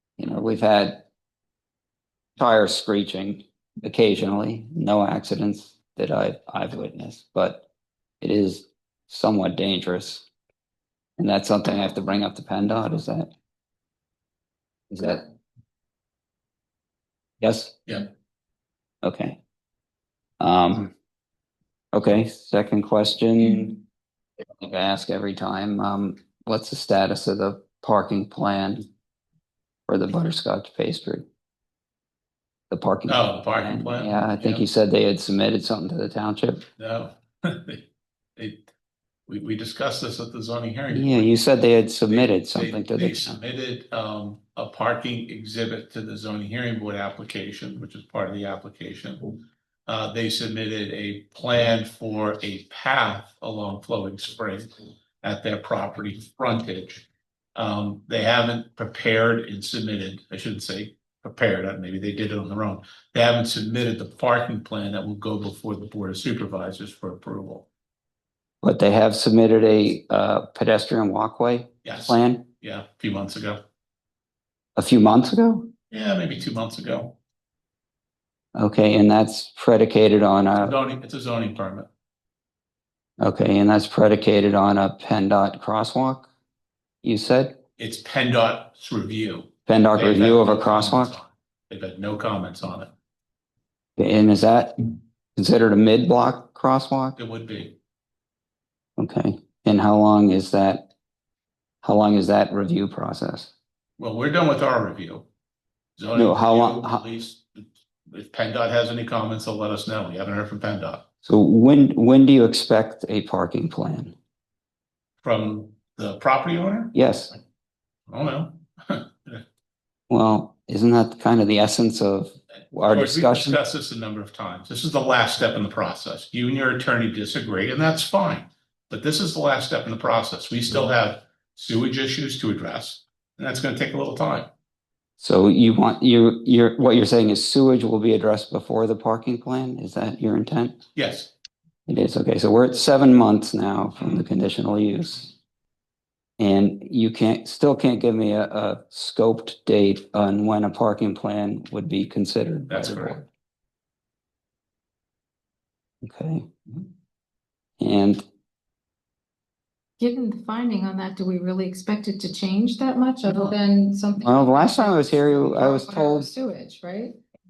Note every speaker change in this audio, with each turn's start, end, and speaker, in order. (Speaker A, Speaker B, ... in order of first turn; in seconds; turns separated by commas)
Speaker A: 0.2-1.1, Speaker A: 2.4-7.7, Speaker A: 8.2-10.3, Speaker A: 11.2-13.3, Speaker A: 14.9-15.3, Speaker A: 17.4-17.8, Speaker A: 19.0-19.4, Speaker A: 20.4-20.9, Speaker A: 21.9-23.8, Speaker A: 24.6-28.9, Speaker A: 29.9-31.2, Speaker A: 32.7-36.6, Speaker B: 33.1-34.6, Speaker B: 36.8-37.8, Speaker B: 38.4-38.6, Speaker B: 39.3-41.3, Speaker A: 40.9-43.4, Speaker B: 42.1-49.3, Speaker B: 49.9-67.7, Speaker A: 68.6-72.5, Speaker B: 71.8-73.6, Speaker A: 74.8-75.7, Speaker B: 75.9-77.2, Speaker A: 78.5-80.7, Speaker B: 80.6-81.9, Speaker A: 83.2-86.3, Speaker A: 87.0-87.6, Speaker B: 87.8-92.9, Speaker A: 89.7-91.1, Speaker A: 94.0-94.8, Speaker A: 95.3-97.2, Speaker B: 97.2-97.8, Speaker A: 99.0-100.9, Speaker A: 101.8-103.5, Speaker B: 104.0-105.3, Speaker B: 106.0-111.0, Speaker A: 106.1-107.0, Speaker A: 111.2-114.1, Speaker B: 115.2-116.9, Speaker A: 116.9-117.3, Speaker B: 118.1-119.4, Speaker A: 120.1-123.6, Speaker B: 122.8-134.5, Speaker A: 135.2-140.8, Speaker B: 140.9-141.3, Speaker A: 141.9-145.3, Speaker A: 146.4-153.3, Speaker B: 152.7-153.2, Speaker A: 156.0-156.5, Speaker A: 157.8-158.2, Speaker C: 160.0-167.2, Speaker A: 164.2-166.3